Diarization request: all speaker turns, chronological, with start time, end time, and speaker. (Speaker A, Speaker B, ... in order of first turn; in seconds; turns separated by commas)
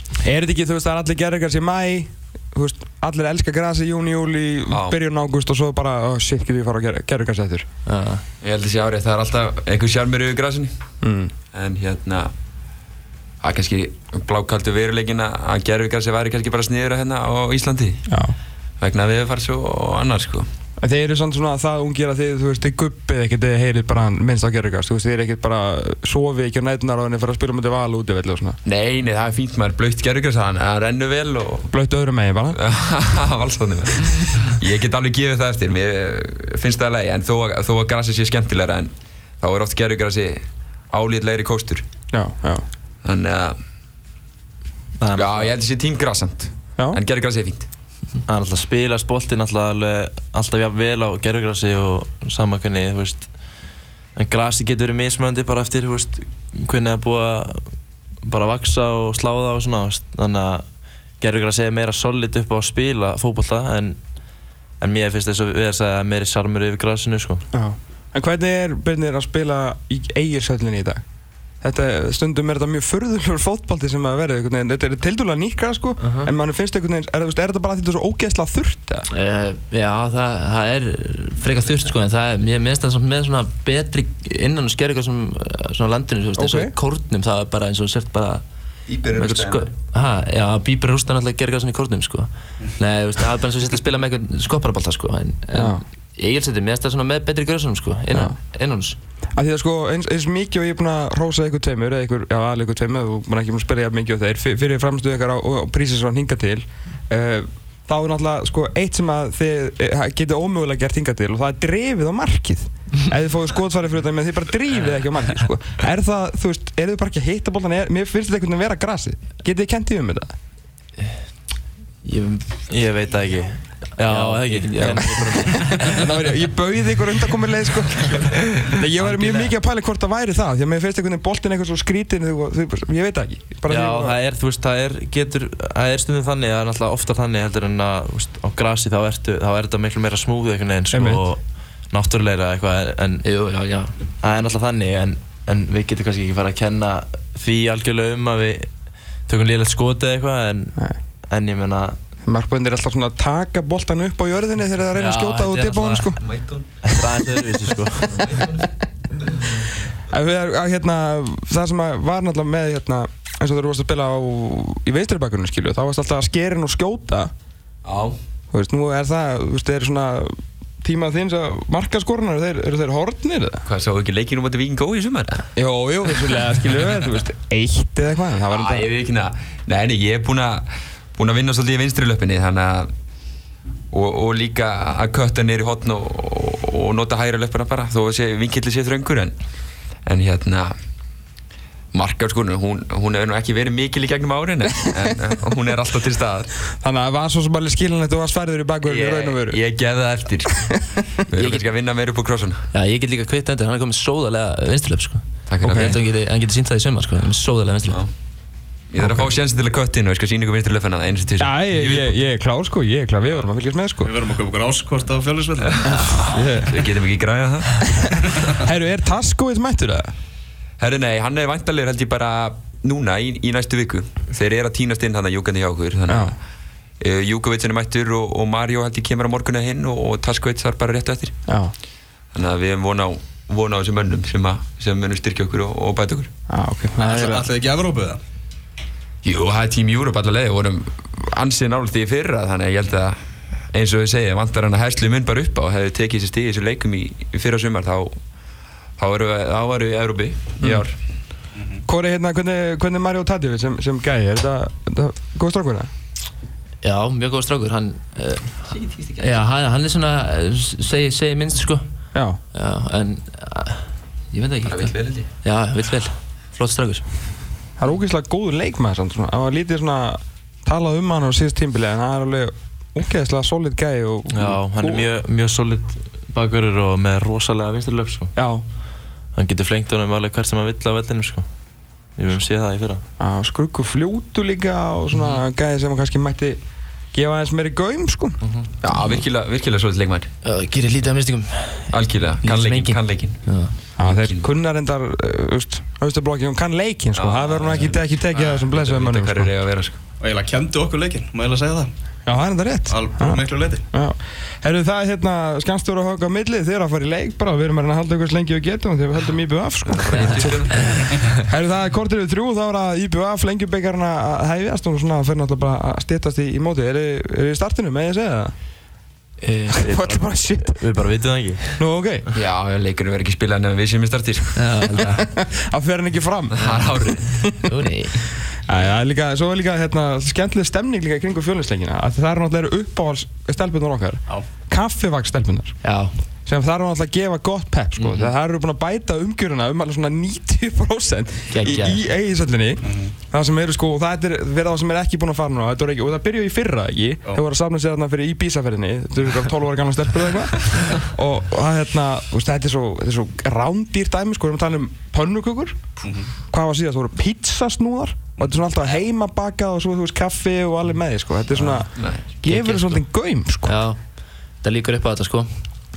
Speaker A: 0.2-7.7, Speaker B: 4.7-5.0, Speaker C: 7.8-8.2, Speaker B: 8.4-10.7, Speaker A: 11.0-11.3, Speaker B: 11.5-12.3, Speaker B: 13.4-18.0, Speaker A: 18.1-18.3, Speaker B: 18.8-20.5, Speaker A: 20.8-28.6, Speaker B: 28.6-31.7, Speaker A: 31.7-32.6, Speaker B: 32.5-41.9, Speaker A: 42.1-42.6, Speaker B: 43.0-43.6, Speaker D: 45.0-45.5, Speaker B: 45.1-47.7, Speaker D: 48.3-53.3, Speaker D: 54.1-57.7, Speaker D: 58.2-60.6, Speaker D: 61.2-64.0, Speaker D: 64.8-67.4, Speaker A: 67.5-71.0, Speaker A: 71.6-79.0, Speaker C: 76.0-76.3, Speaker C: 79.1-88.4, Speaker A: 86.4-86.7, Speaker B: 88.9-89.7, Speaker C: 89.1-99.0, Speaker A: 95.5-95.8, Speaker A: 99.3-120.3, Speaker C: 122.0-122.7, Speaker D: 122.7-125.8, Speaker C: 124.0-126.0, Speaker A: 124.8-134.2, Speaker C: 129.0-129.5, Speaker D: 133.7-143.2, Speaker A: 140.9-141.2, Speaker C: 143.2-143.9, Speaker D: 144.2-148.7, Speaker D: 149.3-150.8, Speaker D: 151.3-151.9, Speaker A: 152.2-156.2, Speaker C: 155.0-156.1, Speaker B: 156.2-156.7, Speaker D: 156.8-158.2, Speaker B: 158.1-158.6, Speaker A: 160.1-167.3, Speaker B: 167.8-168.2, Speaker A: 168.5-173.6, Speaker B: 173.7-175.5, Speaker A: 175.6-178.9, Speaker B: 178.5-182.9, Speaker B: 183.9-189.3, Speaker B: 190.0-190.7, Speaker B: 191.9-196.5, Speaker A: 196.8-199.6, Speaker B: 198.8-202.7, Speaker A: 200.5-201.0, Speaker C: 201.3-201.6, Speaker C: 202.7-208.0, Speaker B: 205.5-206.0, Speaker A: 205.6-205.9, Speaker B: 208.9-212.1, Speaker A: 209.0-209.3, Speaker A: 211.4-214.1, Speaker E: 214.0-216.2, Speaker B: 215.8-218.2, Speaker A: 216.0-216.8, Speaker A: 217.9-220.1, Speaker B: 220.8-226.3, Speaker A: 226.1-226.3, Speaker B: 227.0-231.4, Speaker A: 231.5-231.7, Speaker B: 232.3-236.3, Speaker A: 236.5-237.5, Speaker E: 237.0-238.2, Speaker B: 239.2-243.2, Speaker B: 243.7-248.1, Speaker B: 249.0-251.0, Speaker A: 250.6-250.8, Speaker E: 251.5-251.8, Speaker A: 251.9-255.9, Speaker C: 256.8-261.8, Speaker A: 262.1-262.4, Speaker C: 262.5-267.1, Speaker B: 264.6-265.3, Speaker A: 267.8-275.1, Speaker D: 274.3-278.3, Speaker A: 278.4-278.6, Speaker D: 279.3-281.4, Speaker D: 282.2-283.0, Speaker A: 283.2-286.6, Speaker A: 287.1-288.4, Speaker C: 288.4-289.2, Speaker B: 288.8-290.3, Speaker C: 290.4-293.7, Speaker B: 291.9-293.4, Speaker A: 294.0-299.5, Speaker B: 294.0-294.4, Speaker B: 297.1-298.0, Speaker B: 298.6-300.0, Speaker E: 300.2-301.9, Speaker A: 302.2-318.5, Speaker E: 302.9-303.8, Speaker B: 309.8-311.1, Speaker C: 310.2-311.2, Speaker C: 319.4-320.2, Speaker A: 319.7-320.8, Speaker D: 320.6-321.8, Speaker A: 321.8-322.2, Speaker B: 322.3-324.8, Speaker C: 324.6-325.2, Speaker A: 325.0-327.7, Speaker B: 326.5-327.6, Speaker C: 327.6-328.2, Speaker A: 328.6-335.8, Speaker C: 335.8-336.1, Speaker A: 336.4-355.9, Speaker C: 338.0-338.3, Speaker C: 341.5-342.1, Speaker E: 342.8-343.1, Speaker E: 356.0-356.3, Speaker A: 356.5-363.7, Speaker C: 361.5-363.0, Speaker B: 361.9-362.2, Speaker C: 363.6-364.0, Speaker C: 364.6-365.5